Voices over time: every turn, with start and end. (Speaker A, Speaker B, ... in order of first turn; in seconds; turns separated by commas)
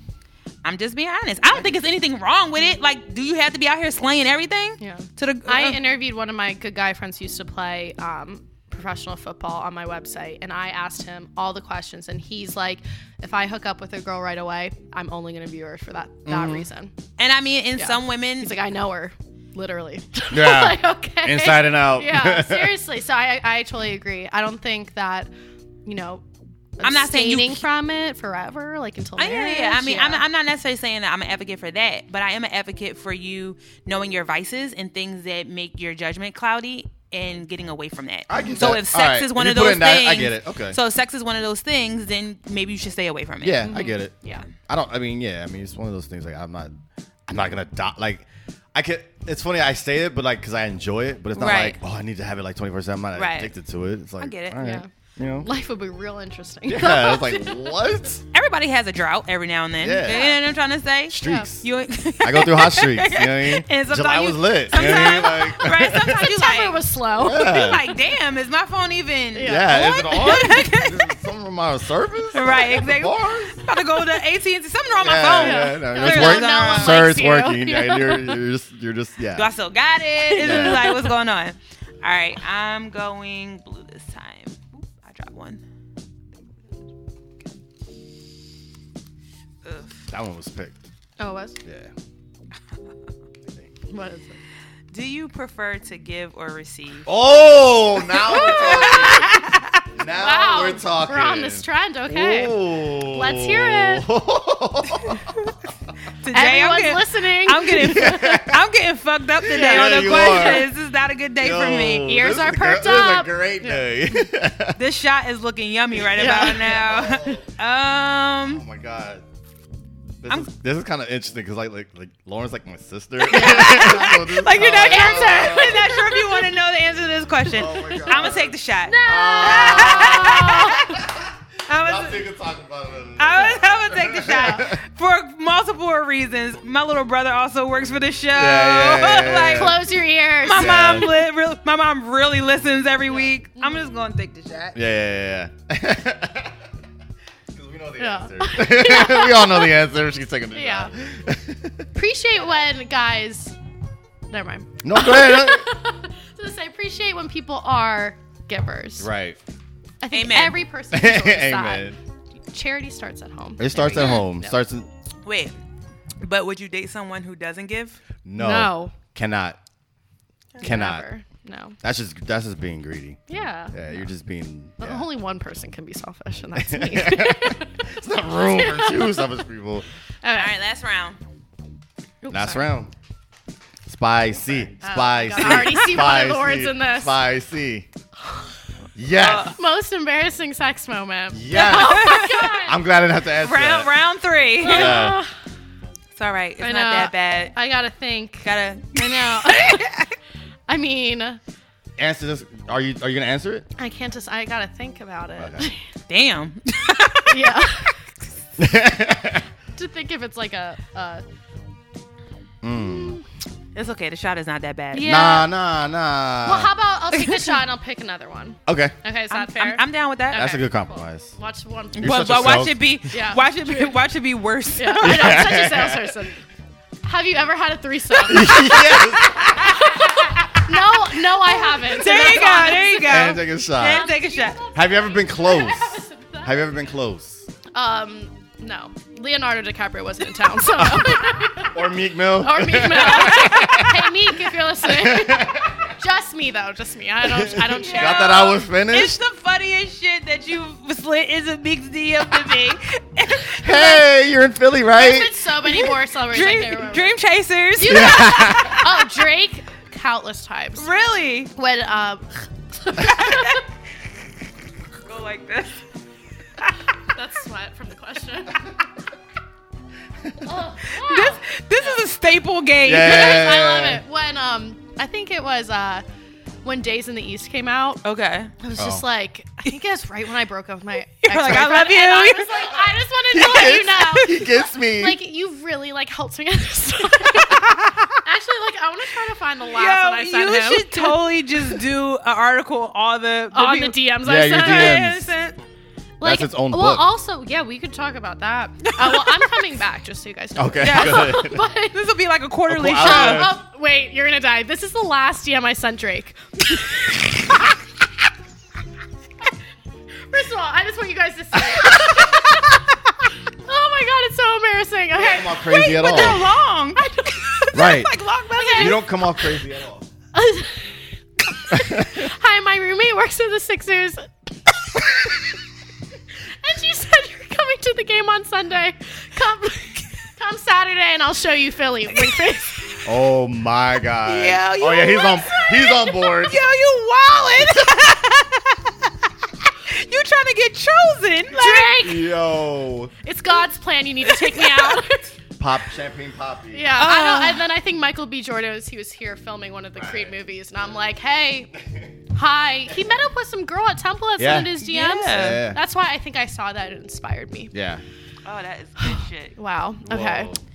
Speaker A: 0.6-5.8, Speaker B: 4.8-16.9, Speaker C: 16.2-16.7, Speaker A: 17.2-18.5, Speaker B: 17.8-25.3, Speaker C: 20.3-22.8, Speaker B: 25.9-26.2, Speaker B: 26.8-30.2, Speaker A: 26.8-27.6, Speaker A: 29.2-43.7, Speaker C: 38.3-40.8, Speaker C: 43.4-46.7, Speaker B: 43.6-44.4, Speaker C: 47.3-55.5, Speaker A: 51.4-51.8, Speaker A: 53.1-53.5, Speaker A: 54.2-54.6, Speaker B: 54.6-54.9, Speaker B: 55.4-57.9, Speaker C: 56.7-58.2, Speaker A: 58.3-66.8, Speaker C: 59.8-60.2, Speaker B: 60.0-60.4, Speaker C: 61.1-61.6, Speaker B: 61.2-61.5, Speaker C: 62.2-66.1, Speaker B: 64.7-67.8, Speaker C: 67.2-67.8, Speaker A: 67.3-71.1, Speaker B: 69.3-70.4, Speaker C: 69.4-73.6, Speaker A: 72.3-77.0, Speaker C: 75.0-79.5, Speaker B: 75.3-78.4, Speaker A: 79.3-85.6, Speaker B: 80.3-81.1, Speaker C: 80.4-80.8, Speaker A: 89.6-90.0, Speaker C: 90.1-90.8, Speaker B: 91.2-91.6, Speaker C: 91.6-91.9, Speaker C: 93.5-93.8, Speaker B: 93.9-94.4, Speaker A: 94.9-97.1, Speaker C: 97.0-99.4, Speaker B: 98.3-99.2, Speaker A: 98.3-99.8, Speaker C: 99.9-105.3, Speaker B: 100.1-104.1, Speaker A: 106.2-112.1, Speaker B: 106.3-108.4, Speaker C: 107.8-108.6, Speaker C: 109.4-110.7, Speaker B: 109.5-110.7, Speaker C: 111.4-114.8, Speaker B: 112.0-113.8, Speaker A: 114.8-118.6, Speaker C: 116.1-117.5, Speaker B: 116.2-116.8, Speaker C: 118.4-119.2, Speaker C: 120.2-125.9, Speaker A: 123.2-131.0, Speaker B: 123.3-126.5, Speaker C: 127.5-134.8, Speaker B: 127.8-130.9, Speaker A: 131.7-132.2, Speaker A: 133.2-139.8, Speaker B: 134.3-134.6, Speaker C: 138.3-139.8, Speaker B: 139.5-141.1, Speaker A: 140.4-144.8, Speaker C: 140.5-141.1, Speaker B: 143.1-143.8, Speaker C: 144.7-146.6, Speaker C: 147.5-151.9, Speaker B: 148.0-149.8, Speaker B: 150.5-150.9, Speaker B: 151.9-153.6, Speaker B: 154.3-159.1, Speaker C: 154.8-155.7, Speaker C: 159.0-159.4, Speaker B: 160.0-161.9, Speaker A: 160.1-160.6, Speaker C: 160.9-162.0, Speaker B: 162.5-164.5, Speaker C: 163.6-164.9, Speaker A: 163.9-164.2, Speaker A: 165.2-165.5, Speaker A: 166.2-168.0, Speaker C: 168.2-169.6, Speaker B: 168.4-168.9, Speaker B: 170.6-171.8, Speaker C: 170.6-171.1, Speaker C: 171.8-173.2, Speaker B: 173.3-173.9, Speaker C: 173.7-175.1, Speaker B: 174.8-177.8, Speaker C: 176.5-179.8, Speaker B: 178.4-179.3, Speaker B: 180.2-180.5, Speaker A: 180.3-181.2, Speaker B: 182.2-182.7, Speaker C: 182.3-182.9, Speaker C: 183.8-187.9, Speaker B: 184.8-187.2, Speaker A: 185.4-185.7, Speaker C: 188.9-189.5, Speaker A: 189.2-189.5, Speaker B: 189.5-192.8, Speaker C: 191.3-193.9, Speaker A: 191.5-192.6, Speaker A: 193.4-195.0, Speaker B: 194.6-195.3, Speaker C: 194.7-195.2, Speaker A: 196.1-197.5, Speaker B: 196.6-199.9, Speaker A: 198.4-200.1, Speaker B: 200.7-201.4, Speaker C: 202.0-203.7, Speaker B: 203.8-205.8, Speaker C: 205.4-205.7, Speaker A: 206.1-207.6, Speaker B: 207.3-207.9, Speaker C: 208.6-209.4, Speaker B: 209.8-211.2, Speaker C: 212.6-213.2, Speaker A: 213.7-215.1, Speaker B: 214.9-215.5, Speaker C: 215.0-216.7, Speaker B: 216.4-223.9, Speaker A: 217.1-217.5, Speaker C: 218.7-218.9, Speaker A: 219.3-220.5, Speaker C: 220.3-221.3, Speaker A: 221.9-225.5, Speaker C: 222.0-222.8, Speaker B: 224.8-226.4, Speaker C: 225.0-226.2, Speaker B: 227.0-229.0, Speaker C: 228.2-230.0, Speaker A: 229.3-230.4, Speaker B: 229.6-236.8, Speaker A: 231.8-234.6, Speaker C: 233.0-234.1, Speaker C: 234.7-237.5, Speaker B: 237.7-241.8, Speaker C: 240.8-244.0, Speaker B: 242.4-248.6, Speaker A: 243.0-243.8, Speaker C: 244.8-245.9, Speaker C: 247.2-249.2, Speaker A: 247.7-254.0, Speaker C: 253.6-255.3, Speaker B: 254.9-257.2, Speaker A: 255.7-258.9, Speaker B: 257.8-260.9, Speaker C: 257.8-258.8, Speaker A: 260.8-261.5, Speaker B: 261.5-263.6, Speaker A: 263.0-263.6, Speaker A: 265.0-265.8, Speaker B: 267.1-268.6, Speaker B: 270.4-272.0, Speaker A: 270.9-273.4, Speaker C: 272.8-274.0, Speaker B: 272.9-276.0, Speaker B: 276.6-278.0, Speaker A: 278.0-278.5, Speaker B: 278.6-291.8, Speaker C: 278.8-279.0, Speaker A: 281.2-282.8, Speaker C: 283.3-285.2, Speaker A: 287.4-288.1, Speaker A: 289.7-295.6, Speaker B: 293.5-295.2, Speaker C: 294.2-295.2, Speaker B: 296.2-302.0, Speaker C: 296.2-297.0, Speaker A: 298.9-299.5, Speaker C: 300.6-301.6, Speaker A: 300.8-303.5, Speaker C: 302.7-303.6, Speaker B: 302.9-307.3, Speaker B: 310.3-312.7, Speaker B: 313.6-316.4, Speaker C: 315.1-316.4, Speaker A: 315.8-319.0, Speaker B: 317.0-317.7, Speaker C: 317.7-318.1, Speaker B: 318.6-319.1, Speaker C: 318.7-320.1, Speaker B: 320.3-320.9, Speaker B: 321.5-324.3, Speaker C: 321.7-322.2, Speaker B: 324.9-325.3, Speaker B: 326.6-332.8, Speaker C: 333.0-336.6, Speaker A: 334.2-339.1, Speaker A: 339.7-342.0, Speaker B: 341.5-342.3, Speaker C: 342.0-343.1, Speaker B: 343.2-345.4, Speaker A: 344.4-345.0, Speaker C: 345.6-347.0, Speaker B: 346.7-351.7, Speaker A: 347.0-347.7, Speaker C: 349.9-350.4, Speaker C: 351.8-352.1, Speaker B: 352.3-357.7, Speaker C: 354.4-355.8, Speaker A: 354.8-355.6, Speaker C: 357.7-358.0, Speaker A: 358.4-359.5, Speaker B: 359.0-360.5, Speaker C: 360.0-360.6